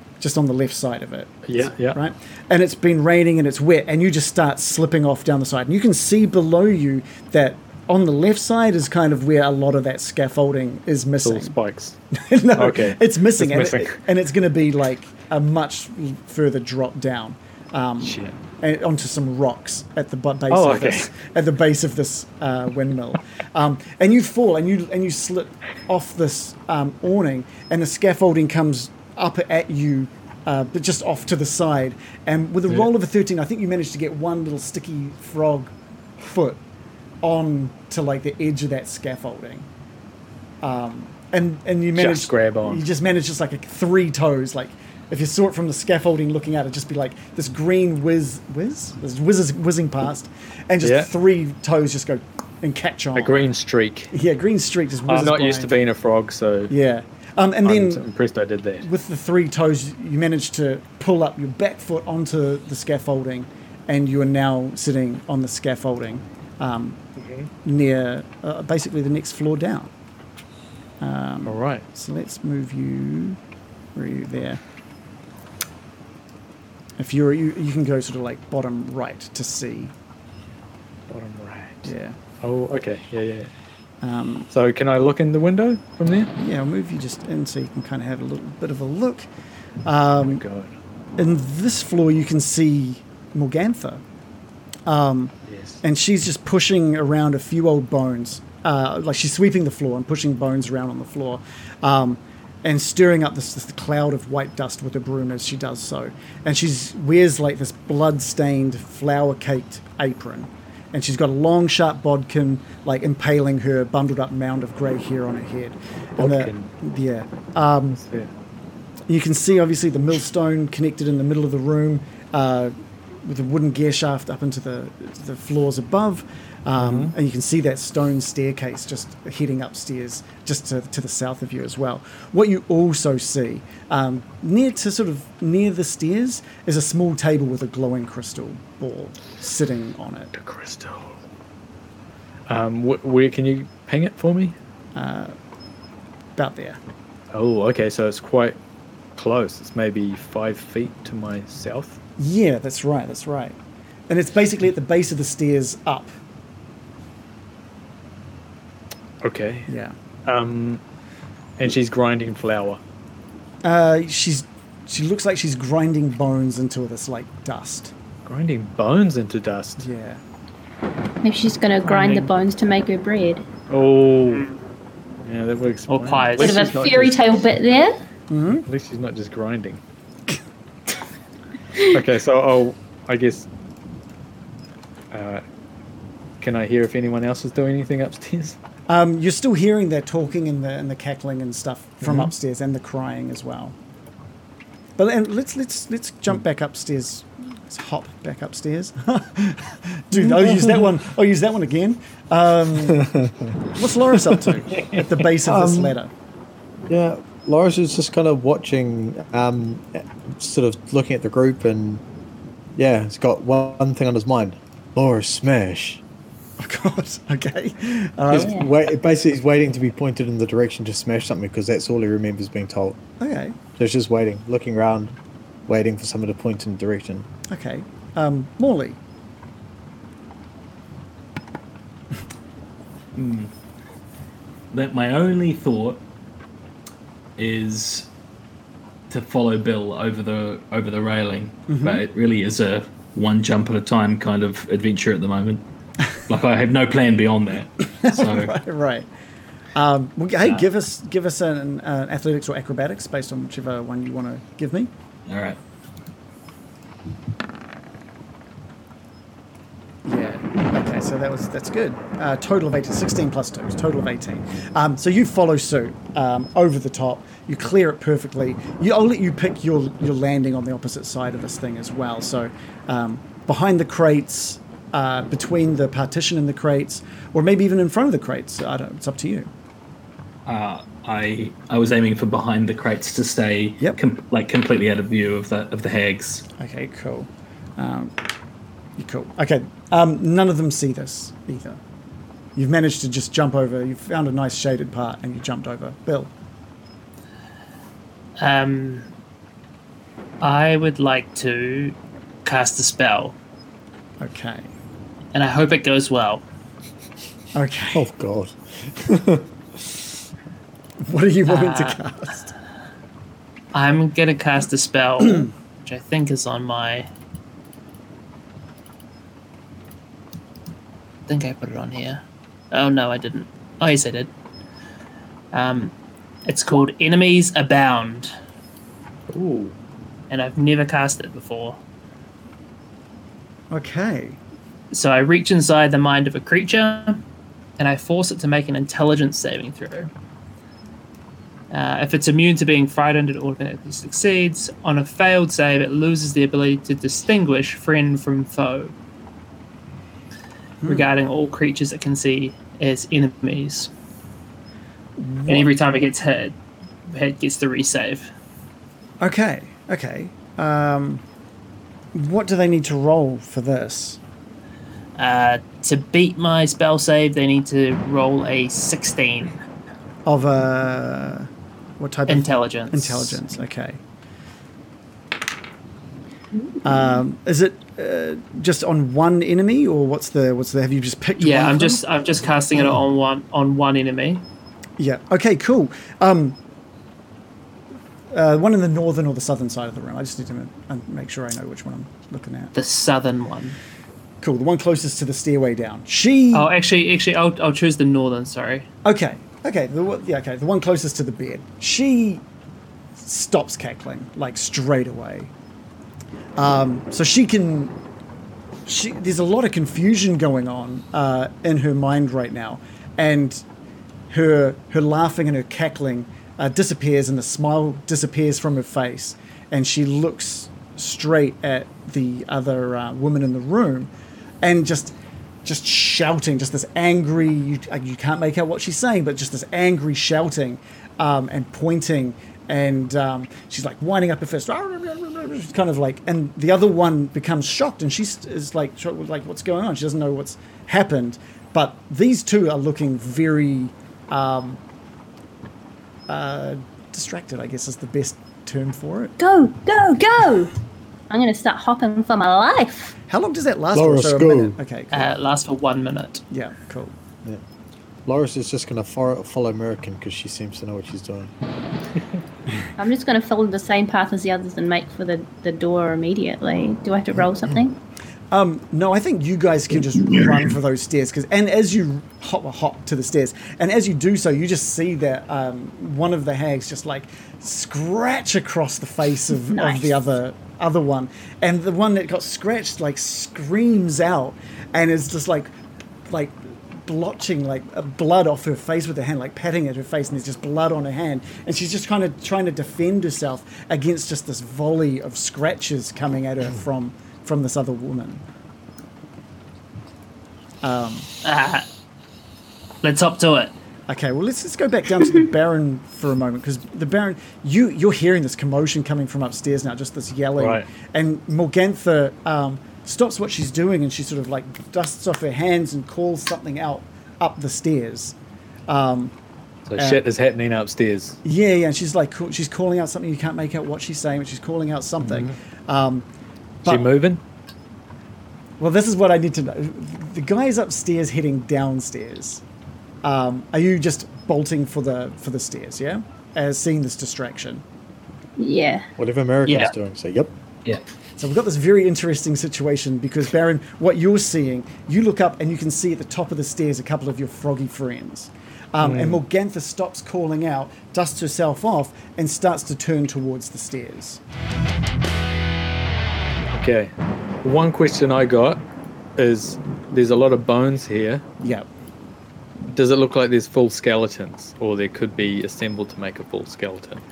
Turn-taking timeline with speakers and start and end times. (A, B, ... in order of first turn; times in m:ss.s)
0:00.2-0:11.6 A
0:01.5-0:02.0 B
0:11.2-0:12.0 B
0:12.1-0:36.6 A
0:12.6-0:14.0 B
0:18.0-0:18.3 B
0:20.5-0:21.1 B
0:37.2-0:39.7 A
0:40.6-0:53.5 A
0:41.9-0:42.8 B
0:50.8-0:51.1 B
0:53.1-0:54.1 B
0:54.1-0:55.8 A
0:55.1-0:56.7 B
0:56.7-0:58.0 A
0:57.6-0:58.9 B
0:58.8-1:07.0 A
1:07.2-1:07.5 B
1:07.6-1:09.9 A
1:11.0-1:13.4 A
1:11.4-1:11.8 B
1:13.9-1:14.6 A
1:17.0-1:19.9 A
1:21.1-1:23.5 B
1:21.8-1:22.2 A
1:24.0-1:24.5 A
1:24.5-1:26.3 B
1:26.4-1:29.3 A
1:29.8-1:30.4 A
1:30.2-1:30.7 B
1:31.2-1:34.0 A
1:34.9-1:58.0 A
1:35.5-1:35.8 B
1:56.2-1:56.7 B
1:57.9-1:58.3 B
1:59.1-2:20.3 A
2:06.8-2:07.1 B
2:20.3-2:21.2 B
2:22.5-2:24.6 B
2:24.9-2:25.3 A
2:26.4-2:26.8 A
2:27.3-2:28.6 B
2:29.2-2:32.0 B
2:32.2-2:33.6 A
2:34.1-2:36.1 A
2:39.2-2:39.7 B
2:39.7-2:39.9 A
2:40.2-2:40.8 B
2:41.6-2:42.8 B
2:43.6-2:47.9 A
2:48.2-2:49.9 B
2:49.8-2:50.2 A
2:51.2-2:53.4 C
2:53.7-2:54.5 B
2:54.2-2:54.6 D
2:55.2-2:57.2 B
2:55.9-2:56.7 D
2:56.4-2:58.0 C
2:58.3-2:58.6 A
2:58.5-2:59.8 B
3:01.8-3:03.5 B
3:05.1-3:05.4 B
3:06.4-3:08.6 B
3:08.9-3:13.7 A
3:12.0-3:12.3 B
3:15.0-3:23.1 A
3:20.2-3:20.9 E
3:22.9-3:23.6 E
3:23.7-3:26.1 A
3:25.4-3:26.0 E
3:26.9-3:32.0 E
3:32.8-3:36.0 E
3:36.6-3:38.6 A
3:38.3-3:43.0 E
3:38.3-3:38.7 C
3:43.2-3:43.6 A
3:43.8-3:45.2 E
3:45.7-3:47.3 E
3:47.5-3:49.0 A
3:53.2-3:53.5 F
3:54.7-3:56.0 F
3:57.4-3:58.1 F
3:59.1-4:05.6 F
4:01.7-4:02.0 A
4:06.3-4:08.5 F
4:07.9-4:09.0 A
4:09.7-4:14.9 A
4:15.3-4:15.6 F
4:20.0-4:39.5 A
4:40.4-4:46.4 F
4:46.6-4:48.2 A
4:49.0-4:51.8 A
4:52.6-4:56.3 A
4:58.4-4:59.1 D
5:00.4-5:03.4 D
5:04.2-5:04.7 A
5:05.3-5:06.4 D
5:07.5-5:08.1 A
5:07.9-5:10.0 E
5:11.0-5:12.5 A
5:11.5-5:12.0 D
5:13.7-5:17.1 D
5:21.3-5:24.3 D
5:25.5-5:25.9 D
5:26.4-5:28.3 D
5:29.3-5:29.7 B
5:30.3-5:31.8 D
5:33.7-5:34.4 A
5:34.9-5:37.2 D
5:37.8-5:40.1 D
5:41.7-5:48.9 D
5:50.8-5:51.1 A
5:50.8-5:53.9 D
5:55.2-5:55.7 A
5:55.5-5:56.5 D
5:57.1-5:58.3 D
5:59.2-6:01.2 A
6:02.1-6:04.2 A
6:05.2-6:09.6 D
6:10.2-6:14.0 A
6:12.3-6:13.4 D
6:16.8-6:22.0 A
6:21.4-6:24.4 D
6:25.0-6:26.6 A
6:28.3-6:32.7 A
6:32.7-6:33.8 D
6:34.4-6:36.7 A
6:36.5-6:38.9 D
6:39.0-6:42.4 A
6:43.2-6:45.5 A
6:46.6-6:47.9 A
6:48.8-6:53.6 A
6:54.3-7:04.1 A
7:04.6-7:24.8 A
7:26.3-7:29.3 A
7:29.4-7:30.7 C
7:31.3-7:33.1 C
7:33.3-7:35.3 A
7:33.9-7:34.8 E
7:35.1-7:36.4 D
7:36.5-7:37.1 A
7:38.2-7:41.5 E
7:43.0-7:48.0 C
7:48.5-8:05.7 A
7:59.7-8:00.2 C
8:06.3-8:18.4 A
8:20.8-8:21.3 A
8:21.4-8:21.8 D
8:23.0-8:23.7 D
8:24.1-8:38.4 A
8:30.6-8:30.8 B
8:38.9-8:39.3 A
8:39.9-8:41.4 B
8:40.0-8:40.2 A
8:41.4-8:46.2 A
8:45.2-8:45.5 B
8:46.8-8:47.1 A
8:46.8-8:47.4 B
8:48.8-8:52.6 A
8:53.2-8:57.8 A
8:58.6-8:59.0 C
8:59.2-9:00.5 E
9:01.4-9:14.4 A
9:09.0-9:09.4 B
9:16.7-9:17.1 B
9:17.6-9:18.8 B
9:19.4-9:21.4 B
9:21.6-9:21.9 A
9:22.9-9:27.2 B